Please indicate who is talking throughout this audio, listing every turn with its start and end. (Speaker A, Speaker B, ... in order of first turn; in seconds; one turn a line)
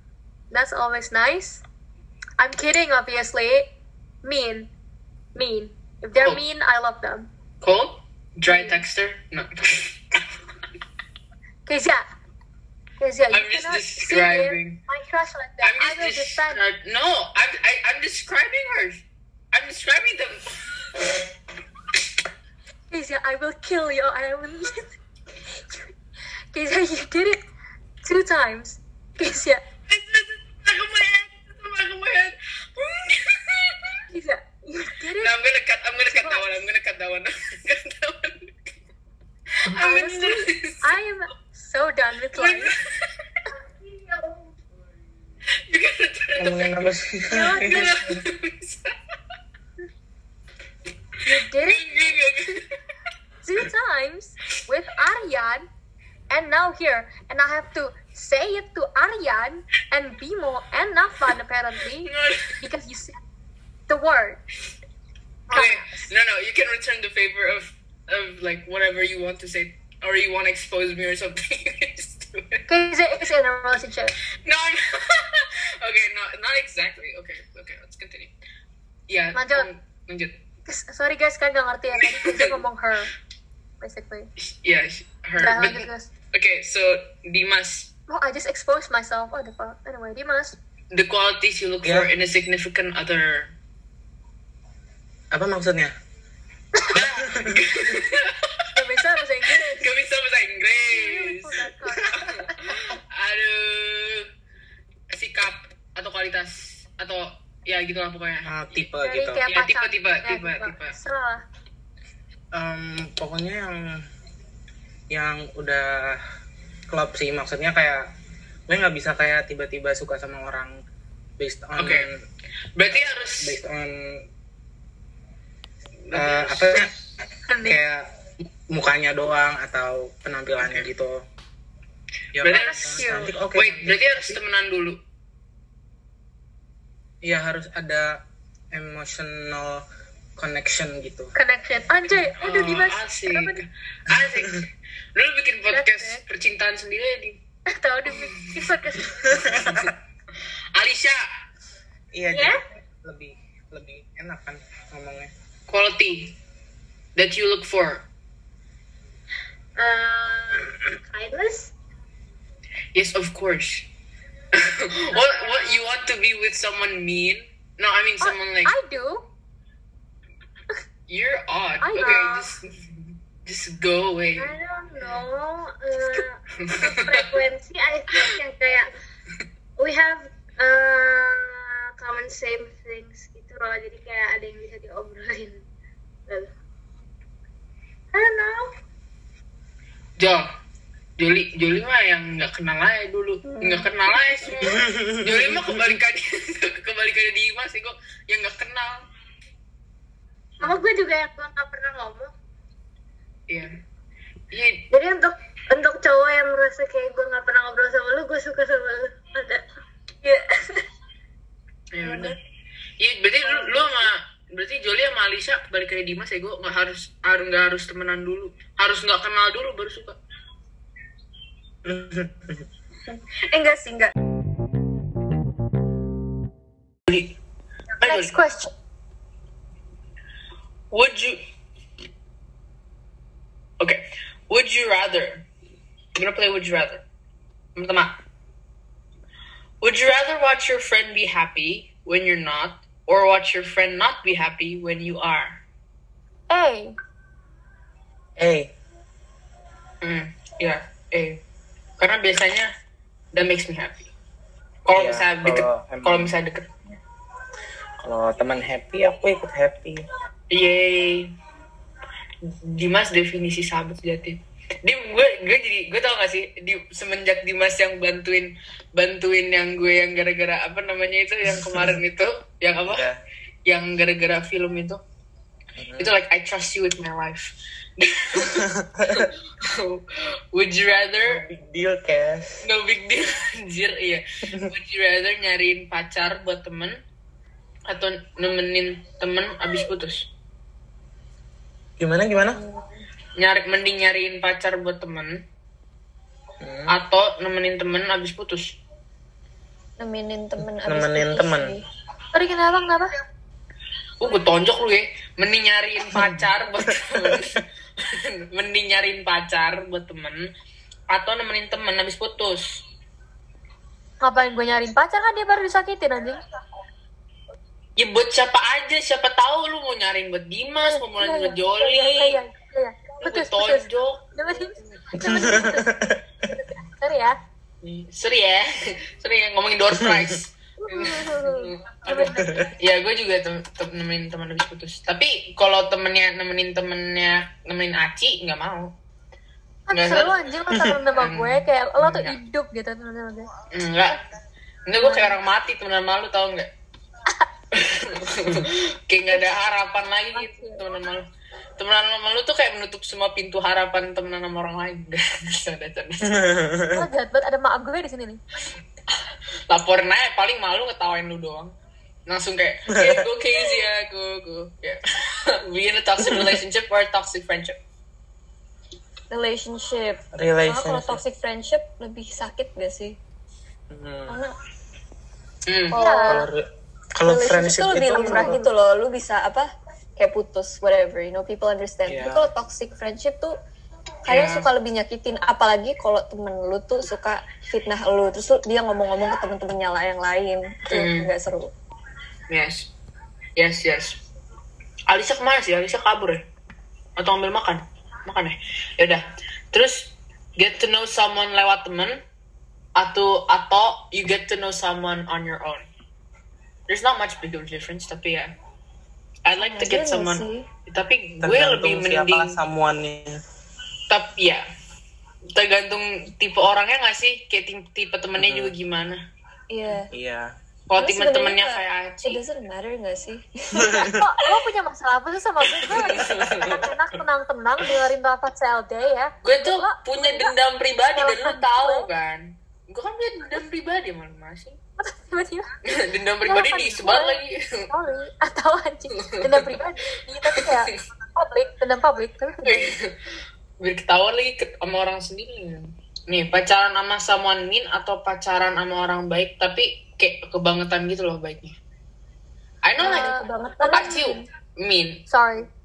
Speaker A: 0.5-1.6
Speaker A: 2.4-3.7
Speaker A: 4.2-4.7
Speaker A: 5.3-7.3
Speaker B: 6.2-6.4
Speaker B: 7.6-10.2
Speaker A: 8.5-8.8
Speaker A: 11.7-12.1
Speaker A: 13.0-16.6
Speaker B: 13.3-14.8
Speaker B: 15.6-21.0
Speaker A: 22.9-24.9
Speaker A: 25.6-25.9
Speaker A: 26.5-27.4
Speaker A: 28.0-29.6
Speaker B: 29.9-34.0
Speaker A: 34.1-35.4
Speaker B: 35.2-38.7
Speaker A: 36.1-36.5
Speaker B: 39.6-40.9
Speaker A: 39.8-42.8
Speaker B: 42.3-43.1
Speaker C: 43.7-44.5
Speaker B: 45.7-48.9
Speaker D: 46.4-48.0
Speaker A: 47.3-47.9
Speaker A: 51.2-52.6
Speaker B: 51.6-52.7
Speaker A: 53.4-55.7
Speaker A: 56.3-63.2
Speaker B: 62.0-62.6
Speaker A: 63.9-64.4
Speaker B: 65.5-72.7
Speaker A: 65.5-66.1
Speaker A: 72.7-74.1
Speaker B: 74.4-78.3
Speaker B: 79.1-80.4
Speaker A: 79.3-79.7
Speaker A: 80.7-83.1
Speaker B: 82.0-82.6
Speaker A: 83.8-84.3
Speaker B: 84.4-87.9
Speaker A: 85.4-86.1
Speaker A: 88.1-90.6
Speaker B: 90.9-93.5
Speaker D: 95.3-95.9
Speaker B: 96.9-98.7
Speaker A: 98.7-99.9
Speaker B: 99.5-104.3
Speaker A: 100.8-102.6
Speaker B: 105.1-108.8
Speaker D: 108.5-109.5
Speaker A: 109.0-111.4
Speaker B: 109.5-111.0
Speaker D: 112.5-114.0
Speaker D: 115.1-116.2
Speaker D: 116.9-118.1
Speaker D: 118.7-120.8
Speaker D: 121.4-122.2
Speaker B: 121.8-122.1
Speaker B: 122.8-123.6
Speaker D: 122.9-124.2
Speaker B: 126.1-127.0
Speaker D: 126.1-126.9
Speaker A: 127.5-127.8
Speaker D: 127.6-128.1
Speaker D: 128.7-131.2
Speaker B: 130.6-130.9
Speaker D: 132.3-134.4
Speaker B: 132.4-135.0
Speaker A: 132.5-133.4
Speaker D: 137.2-138.2
Speaker D: 138.7-139.8
Speaker D: 140.4-141.3
Speaker A: 141.3-143.6
Speaker B: 142.4-147.4
Speaker A: 145.7-146.2
Speaker A: 147.7-149.5
Speaker B: 148.1-149.9
Speaker D: 149.3-149.9
Speaker B: 150.7-151.2
Speaker D: 152.1-155.3
Speaker C: 152.3-152.6
Speaker B: 155.7-156.4
Speaker B: 157.2-158.1
Speaker C: 159.8-161.7
Speaker B: 162.9-163.9
Speaker B: 164.5-168.7
Speaker C: 165.1-165.8
Speaker A: 168.2-169.3
Speaker B: 171.1-174.5
Speaker A: 171.8-172.5
Speaker C: 174.4-178.9
Speaker B: 176.6-177.3
Speaker C: 179.8-185.6
Speaker C: 188.1-188.7
Speaker B: 190.2-190.4
Speaker B: 191.2-199.0
Speaker E: 193.5-193.9
Speaker D: 194.6-196.0
Speaker C: 200.6-202.3
Speaker B: 204.5-204.9
Speaker C: 204.9-209.7
Speaker E: 210.2-210.8
Speaker B: 211.9-212.4
Speaker E: 212.0-212.4
Speaker B: 213.0-220.2
Speaker E: 213.4-213.9
Speaker D: 221.8-222.7
Speaker E: 223.1-224.1
Speaker B: 227.1-227.3
Speaker B: 228.0-228.3
Speaker A: 228.0-228.7
Speaker B: 230.9-231.4
Speaker B: 233.8-235.4
Speaker B: 236.2-237.0
Speaker B: 237.8-238.2
Speaker B: 239.8-245.6
Speaker A: 246.5-246.9
Speaker D: 248.4-248.7
Speaker B: 250.0-251.4
Speaker B: 252.0-252.7
Speaker B: 253.3-254.1
Speaker B: 254.8-256.7
Speaker D: 254.9-256.3
Speaker D: 258.0-260.1
Speaker B: 260.5-261.3
Speaker B: 262.6-273.1
Speaker D: 271.5-272.0
Speaker D: 272.9-273.2
Speaker B: 273.6-275.0
Speaker D: 275.8-276.2
Speaker B: 276.0-281.4
Speaker D: 278.4-279.3
Speaker D: 281.2-282.6
Speaker B: 282.6-287.0
Speaker B: 287.9-290.3
Speaker D: 292.0-292.6
Speaker E: 292.3-293.0
Speaker B: 293.4-295.4
Speaker D: 296.6-296.9
Speaker B: 296.9-298.8
Speaker E: 300.0-301.8
Speaker D: 300.8-301.8
Speaker A: 302.3-303.1
Speaker B: 304.2-310.5
Speaker D: 306.1-307.4
Speaker B: 311.1-312.8
Speaker A: 314.2-316.4
Speaker B: 318.0-322.4
Speaker A: 320.9-325.9
Speaker B: 323.2-324.3
Speaker D: 325.2-326.2
Speaker A: 326.5-327.4
Speaker B: 327.8-338.9
Speaker A: 330.8-332.7
Speaker D: 332.4-332.7
Speaker A: 339.9-343.5
Speaker B: 339.9-340.3
Speaker D: 340.7-341.0
Speaker B: 341.1-342.4
Speaker B: 343.7-344.2
Speaker B: 344.9-346.7
Speaker A: 345.0-345.4
Speaker B: 347.7-351.2
Speaker A: 350.3-350.8
Speaker B: 351.8-356.4
Speaker D: 356.3-357.1
Speaker A: 356.9-358.4
Speaker B: 359.7-361.7
Speaker B: 362.3-367.8
Speaker D: 362.9-363.2
Speaker D: 366.3-366.6
Speaker E: 369.3-373.2
Speaker D: 370.3-371.2
Speaker D: 373.9-374.4
Speaker E: 374.3-374.5
Speaker B: 375.7-376.0
Speaker E: 375.9-376.5
Speaker A: 375.9-376.5
Speaker D: 376.3-378.6
Speaker E: 377.2-383.6
Speaker A: 378.2-378.6
Speaker D: 382.1-382.5
Speaker E: 384.2-391.7
Speaker B: 384.3-384.7
Speaker B: 390.9-391.3
Speaker B: 392.5-392.9
Speaker B: 393.6-394.2
Speaker B: 395.1-396.4
Speaker B: 397.2-402.2
Speaker B: 402.9-405.9
Speaker B: 406.9-408.5
Speaker B: 409.4-412.6
Speaker E: 409.6-410.7
Speaker D: 411.4-413.4
Speaker B: 414.1-414.6
Speaker B: 415.5-419.2
Speaker D: 418.4-418.7
Speaker E: 419.7-420.1
Speaker D: 420.1-420.5
Speaker B: 420.9-422.4
Speaker E: 421.0-424.1
Speaker D: 423.8-424.1
Speaker A: 424.0-430.5
Speaker B: 425.8-426.9
Speaker D: 426.2-426.8
Speaker B: 429.4-434.8
Speaker A: 431.1-432.1
Speaker A: 435.0-435.7
Speaker B: 435.9-437.9
Speaker A: 436.4-442.9
Speaker B: 439.2-439.7
Speaker B: 440.4-440.9
Speaker B: 442.6-443.1
Speaker B: 443.8-451.8
Speaker B: 452.8-453.4
Speaker E: 453.0-454.2
Speaker A: 453.0-454.4
Speaker B: 453.9-455.2
Speaker A: 455.3-455.7